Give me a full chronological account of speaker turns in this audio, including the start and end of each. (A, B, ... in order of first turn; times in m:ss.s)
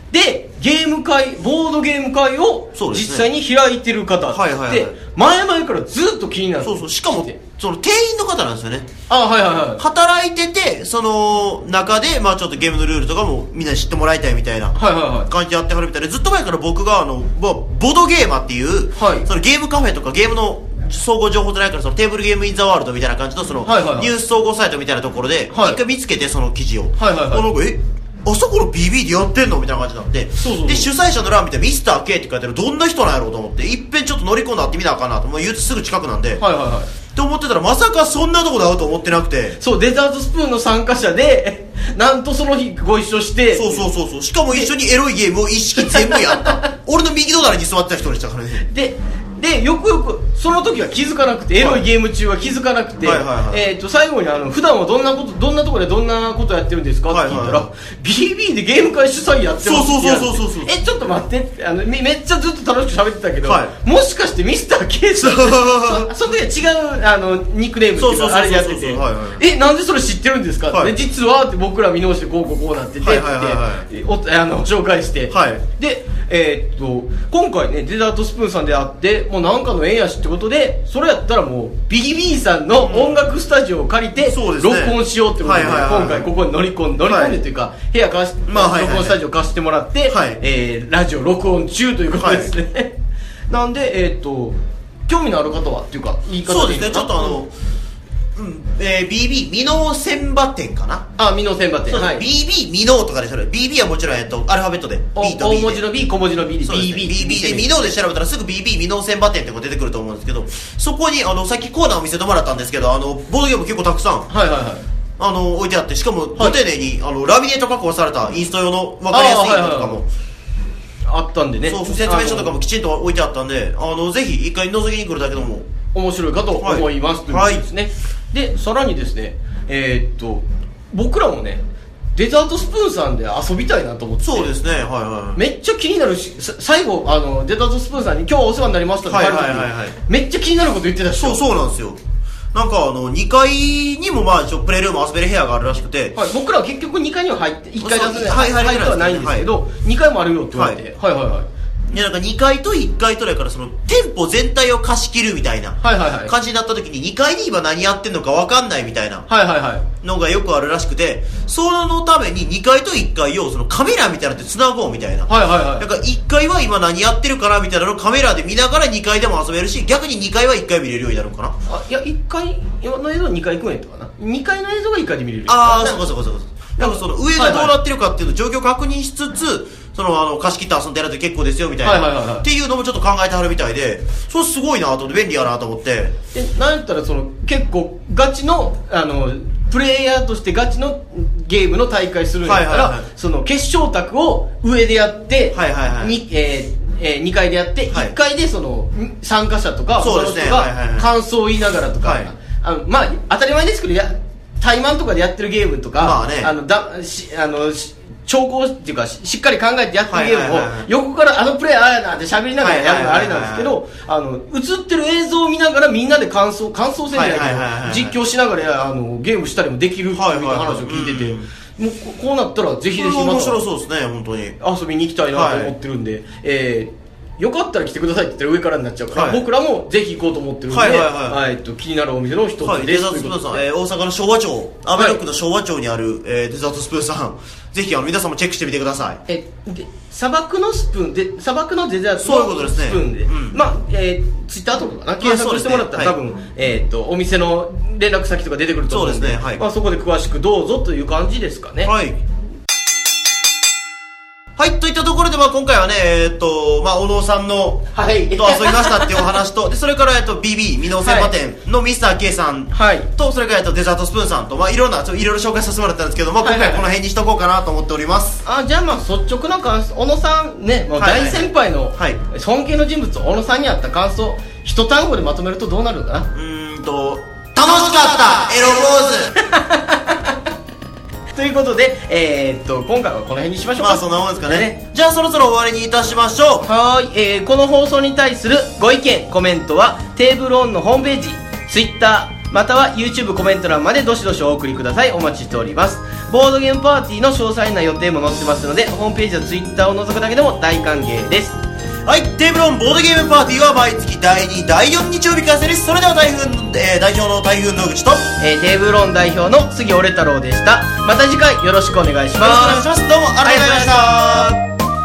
0:00.1-0:07.3 A
0:02.8-0:03.3 B
0:04.3-0:05.0 B
0:06.6-0:08.9 B
0:09.1-0:09.8 A
0:09.8-0:36.4 B
0:14.8-0:15.3 A
0:19.0-0:19.3 A
0:23.6-0:24.1 A
0:25.5-0:25.8 A
0:27.0-0:27.4 A
0:30.4-0:30.9 A
0:36.4-0:36.9 A
0:37.1-0:39.6 B
0:39.6-0:43.9 A
0:43.5-0:48.7 B
0:45.8-0:46.6 A
0:48.7-1:32.9 A
0:51.6-0:51.8 B
0:53.0-0:53.6 B
0:57.1-0:57.6 B
0:59.6-1:00.7 B
1:03.4-1:03.7 B
1:05.2-1:06.1 B
1:08.0-1:09.4 B
1:13.0-1:13.9 B
1:15.3-1:15.6 B
1:22.8-1:23.3 B
1:24.2-1:26.3 B
1:27.0-1:27.4 B
1:28.5-1:29.2 B
1:30.1-1:30.4 B
1:32.1-1:32.5 B
1:33.5-1:34.6 A
1:35.1-1:37.4 A
1:36.4-1:37.5 B
1:38.4-1:41.1 B
1:41.2-1:42.2 A
1:41.9-1:45.8 B
1:45.2-1:47.7 A
1:46.6-1:54.3 B
1:54.3-1:54.8 A
1:55.2-2:00.1 B
1:59.1-2:00.0 A
2:01.1-2:02.6 A
2:01.6-2:05.7 B
2:05.9-2:11.6 A
2:06.6-2:07.6 B
2:12.2-2:14.5 A
2:14.2-2:15.4 B
2:15.4-2:21.4 A
2:19.1-2:20.0 B
2:21.1-2:22.0 B
2:22.5-2:26.2 B
2:26.2-2:31.5 A
2:27.8-2:29.5 B
2:30.5-2:30.8 B
2:31.9-2:39.3 B
2:35.8-2:36.3 A
2:39.3-2:39.9 A
2:40.0-2:51.6 B
2:45.3-2:45.9 A
2:51.7-2:56.1 A
2:55.5-3:06.2 B
2:56.8-2:57.8 A
3:01.8-3:02.5 A
3:06.3-3:43.6 A
3:12.4-3:13.1 B
3:15.5-3:16.1 B
3:20.0-3:21.1 B
3:22.0-3:22.3 B
3:26.0-3:26.5 B
3:30.1-3:30.9 B
3:32.6-3:33.7 B
3:37.1-3:38.1 B
3:40.1-3:41.5 B
3:42.9-3:44.6 B
3:44.6-3:53.6 A
3:45.3-3:45.7 B
3:49.1-3:49.4 B
3:50.7-3:51.4 B
3:52.6-3:59.2 B
3:54.9-3:55.2 A
3:59.3-4:11.9 A
4:02.2-4:03.6 B
4:05.2-4:06.1 B
4:08.9-4:09.6 B
4:11.8-4:12.2 B
4:14.6-4:28.4 B
4:18.0-4:19.3 A
4:21.0-4:21.3 A
4:22.7-4:23.1 A
4:26.4-4:26.8 A
4:28.4-4:36.3 A
4:30.9-4:32.2 B
4:36.3-4:39.4 B
4:39.4-4:40.4 A
4:41.3-4:44.7 A
4:43.8-4:46.7 B
4:46.6-5:01.6 A
5:02.0-5:08.3 B
5:08.4-5:12.9 A
5:12.4-5:14.6 B
5:13.4-5:14.4 A